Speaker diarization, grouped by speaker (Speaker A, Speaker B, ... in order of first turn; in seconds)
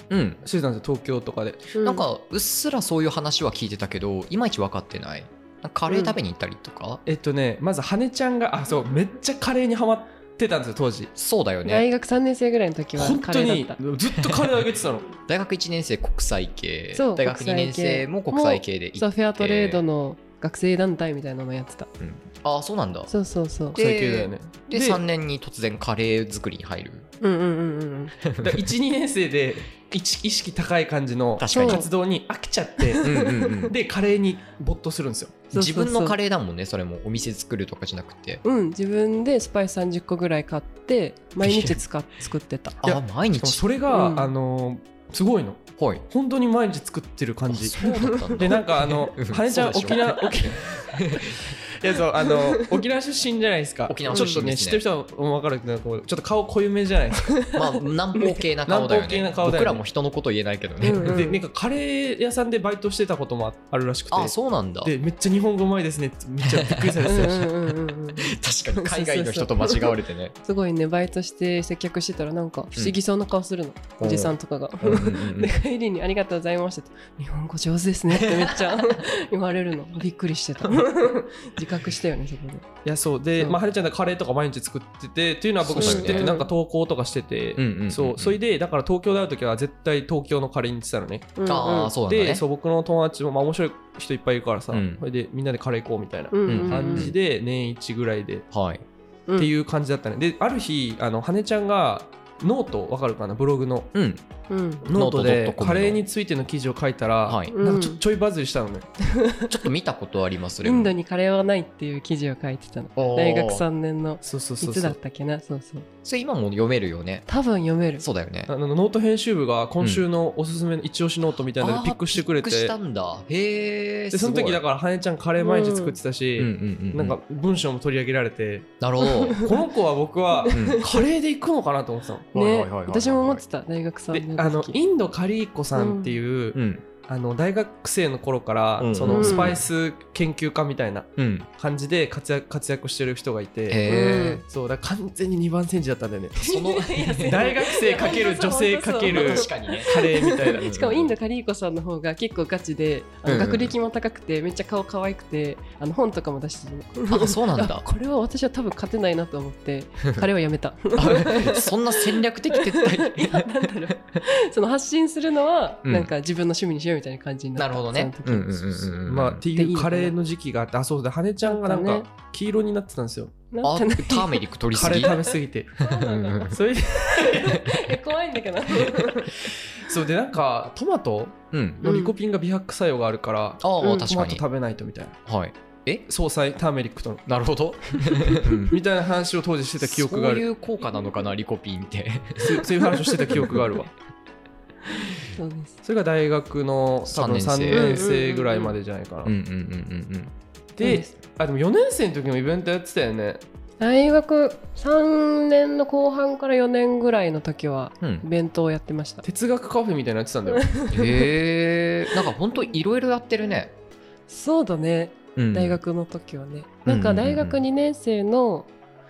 Speaker A: 0.1-0.4, 1.8-7.0, 11.2-11.8, 14.2-14.5, 15.2-19.8, 22.0-23.1, 23.7-27.1, 28.2-28.7, 31.4-31.9, 33.0-33.8, 35.5-38.4, 41.4-41.8, 42.8-43.6, 45.8-46.0, 47.5-51.6, 53.9-54.8, 57.5-61.2, 64.1-65.0, 66.4-67.5, 68.1-70.3, 74.0-75.5, 78.1-79.0, 85.6-86.3, 87.6-88.4, 91.5-92.4, 94.7-95.0, 96.5-97.2, 98.5-98.8, 103.9-104.2, 104.9-106.0, 107.2-107.5, 109.5-110.9, 113.0-113.7, 116.0-117.3, 118.0-118.5, 119.8-120.0, 121.6-124.6, 126.4-127.2, 128.8-129.4, 130.5-130.8, 132.3-133.4, 136.6-136.9, 138.8-139.6, 141.2-141.5, 143.7-144.4, 146.4-147.5, 149.1-151.1, 153.3-153.7, 157.1-157.8, 161.0-163.9, 165.8-166.1, 167.6-169.4, 173.6-175.2, 175.8-176.6, 181.5-181.8, 183.6-184.4, 185.3-186.1, 187.3-188.8, 189.8-192.7, 197.1-198.1, 199.2-200.3, 210.9-213.7, 215.4-215.8, 216.9-217.6
Speaker B: 0.4-1.7, 7.1-11.1, 13.0-15.1, 23.8-25.0, 28.4-35.4, 42.8-57.4, 58.7-59.8, 61.0-67.5, 82.8-91.4, 92.1-98.5, 99.4-103.9, 104.8-108.9, 114.2-115.0, 118.5-122.7, 124.1-128.7, 129.4-132.3, 134.1-143.9, 144.4-146.6, 147.2-150.8, 169.0-173.3, 174.7-175.9, 176.5-177.6, 178.9-185.2, 186.1-187.3, 188.7-190.5, 192.4-193.9, 195.8-199.3, 200.8-203.4, 209.2-210.7
Speaker C: 1.7-2.0, 5.9-6.1, 11.6-13.8, 16.9-21.9, 23.1-23.8, 27.2-28.2, 31.5-31.9, 32.8-33.7, 35.5-36.2, 38.4-42.8, 43.9-44.3, 47.8-48.6, 54.1-54.4, 57.3-58.4, 60.8-61.4, 67.0-82.7, 85.8-86.5, 91.4-91.9, 96.3-97.1, 104.5-104.9, 107.5-108.0, 109.0-109.5, 110.6-115.9, 117.3-118.0, 125.4-126.0, 129.0-129.6, 130.4-131.0, 132.3-134.8, 135.8-136.2, 139.1-139.6, 143.9-144.4, 146.4-168.9, 169.5-170.2, 171.4-172.1, 173.5-179.5, 181.8-182.2, 183.8-184.1, 193.1-193.6, 195.0-195.8, 197.7-198.8, 200.8-201.1, 203.8-209.2, 210.5-211.3, 214.3-218.7